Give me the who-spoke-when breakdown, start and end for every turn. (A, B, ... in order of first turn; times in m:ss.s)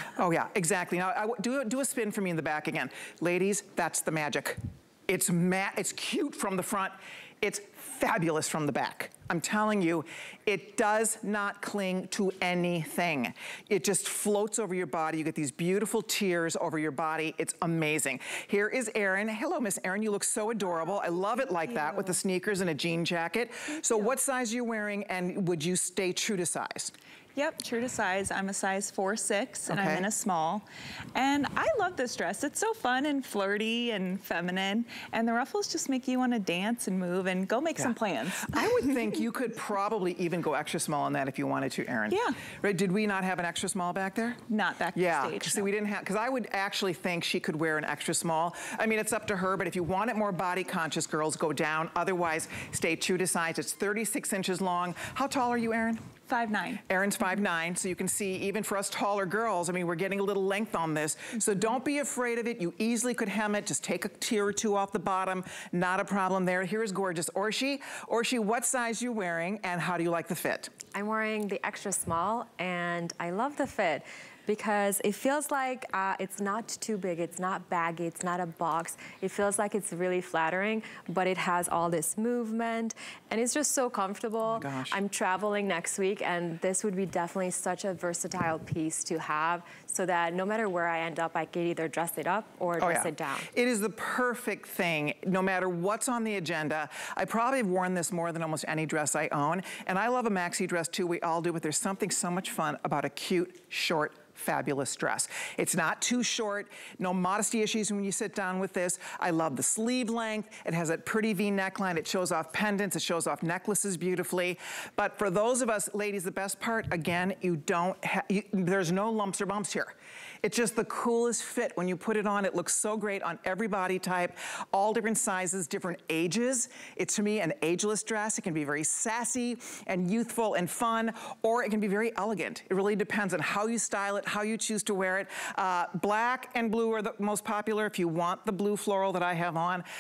0:00.2-0:26.9 A
0:21.7-0:22.1 B
0:27.4-0:39.1 B
0:29.7-0:30.1 A
0:37.8-0:44.4 A
0:42.1-0:42.4 B
0:44.5-0:45.7 B
0:44.9-0:56.0 A
0:56.3-0:56.8 B
0:56.9-1:10.7 A
1:10.9-1:33.5 C
1:24.5-1:25.0 A
1:32.8-2:19.9 A